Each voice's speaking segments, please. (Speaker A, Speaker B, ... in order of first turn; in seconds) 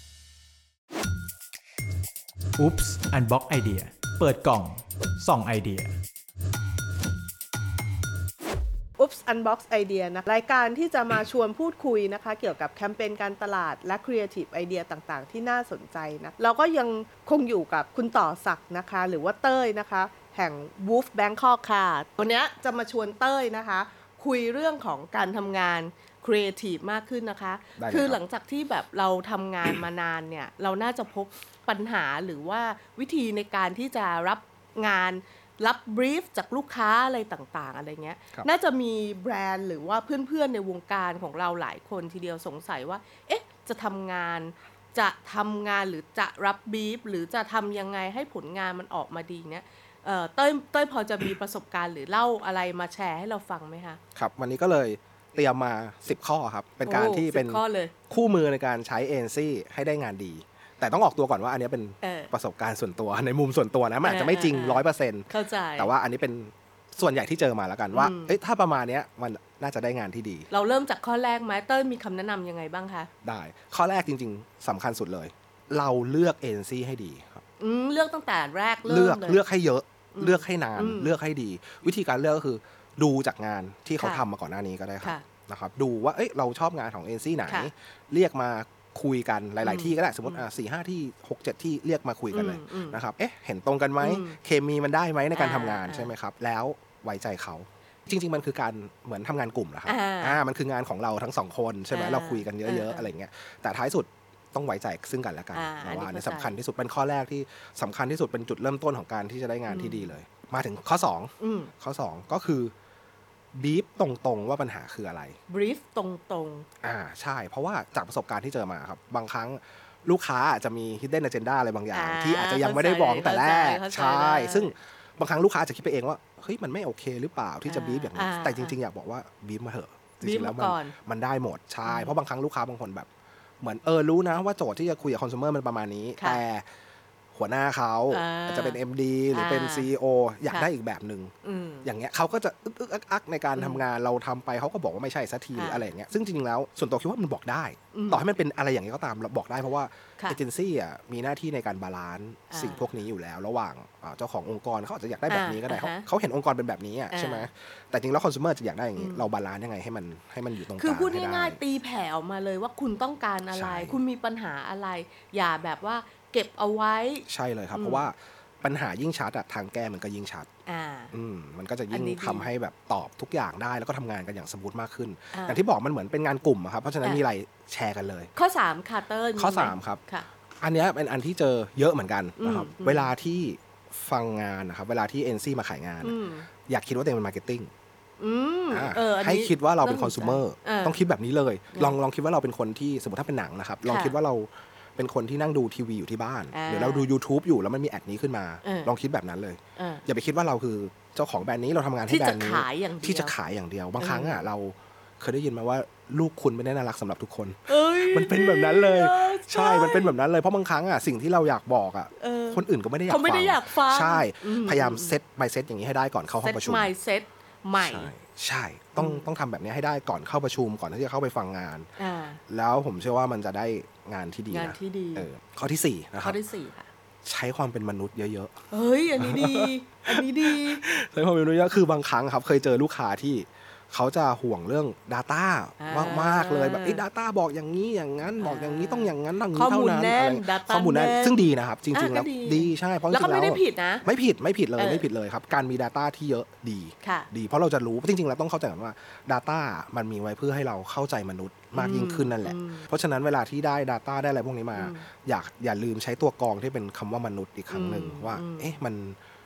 Speaker A: 2.6-5.9
Speaker B: 9.0-54.0, 56.8-58.0, 62.0-62.3, 64.0-65.9, 67.9-68.4, 70.5-73.1, 77.6-79.4, 80.1-81.2, 84.0-84.2, 85.0-85.2, 89.6-90.4, 92.3-93.0, 94.0-94.4, 95.3-96.1, 99.8-100.4, 101.9-103.1, 105.5-106.6, 109.7-110.1, 111.4-111.7, 115.5-116.7, 121.9-124.7, 127.6-128.8, 130.2-130.9, 131.8-132.2, 138.1-138.8, 139.3-139.9, 141.4-141.9, 143.6-143.8, 145.5-145.8, 147.9-148.2, 152.5-152.9, 155.3-156.1, 157.1-157.5, 158.9-159.2, 160.7-168.1, 170.7-171.1, 171.9-172.5, 175.3-175.6, 178.3-180.3, 182.4-183.1, 186.0-186.5, 188.2-191.0, 193.8-194.2, 196.5-197.1, 198.6-198.9, 199.8-200.0, 202.1-203.3, 204.0-204.5, 207.7-210.2, 212.2-215.2, 216.4-218.1, 219.0-219.3, 222.0-222.4, 224.5-225.3, 226.2-226.9, 228.7-230.8, 235.8-237.0, 238.4-244.0, 244.8-245.1, 247.0-247.3, 251.8-252.8, 254.7-255.0, 257.7-258.8
Speaker C: 27.8-28.2, 54.1-70.5, 73.2-77.4, 78.8-112.7, 113.5-115.4, 116.8-133.1, 133.6-136.7, 137.3-141.3, 141.8-161.6, 163.5-164.0, 167.3-170.5, 171.1-178.3, 179.3-180.0, 180.6-186.2, 186.7-187.7, 188.7-216.9, 217.8-221.9, 222.5-226.4, 227.2-228.5, 229.2-259.2